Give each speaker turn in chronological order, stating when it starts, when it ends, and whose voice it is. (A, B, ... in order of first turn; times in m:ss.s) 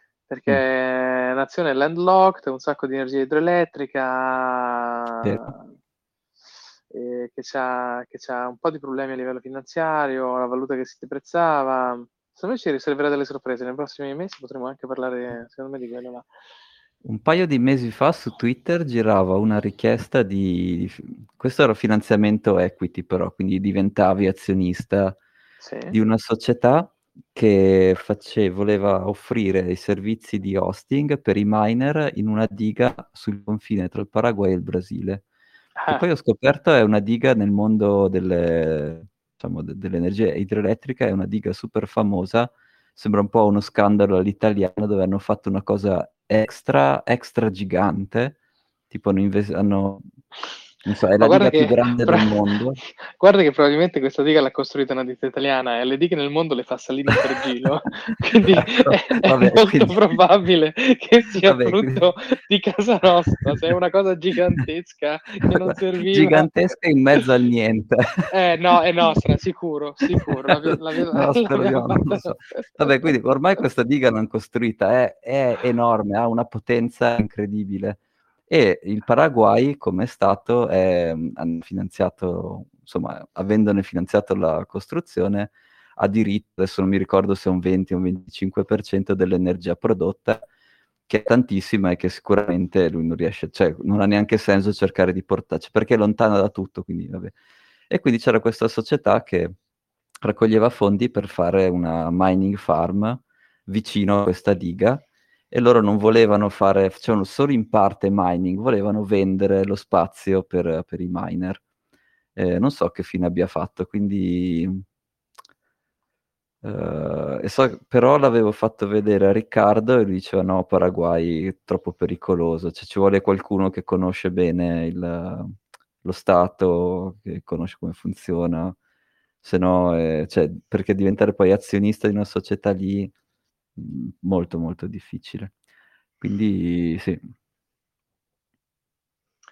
0:00.3-0:05.7 A
0:05.2-0:05.5 B
0:06.9-0:16.3 A
0:17.0-0:25.2 B
0:25.6-0:26.0 A
0:25.9-0:35.2 B
0:35.8-0:36.0 A
0:35.9-0:48.4 B
0:48.9-0:50.0 B
0:50.8-0:52.8 B
0:51.2-0:52.5 A
0:53.0-1:06.5 A
0:58.5-1:00.0 B
1:01.4-1:02.0 B
1:05.7-1:08.1 B
1:08.3-1:12.9 A
1:10.1-1:30.4 B
1:31.1-1:37.3 B
1:37.9-1:39.5 B
1:40.2-1:51.6 B
1:52.4-1:54.8 B
1:56.6-2:08.8 B
2:09.4-2:13.1 B
2:13.8-2:15.5 B
2:16.2-2:17.2 B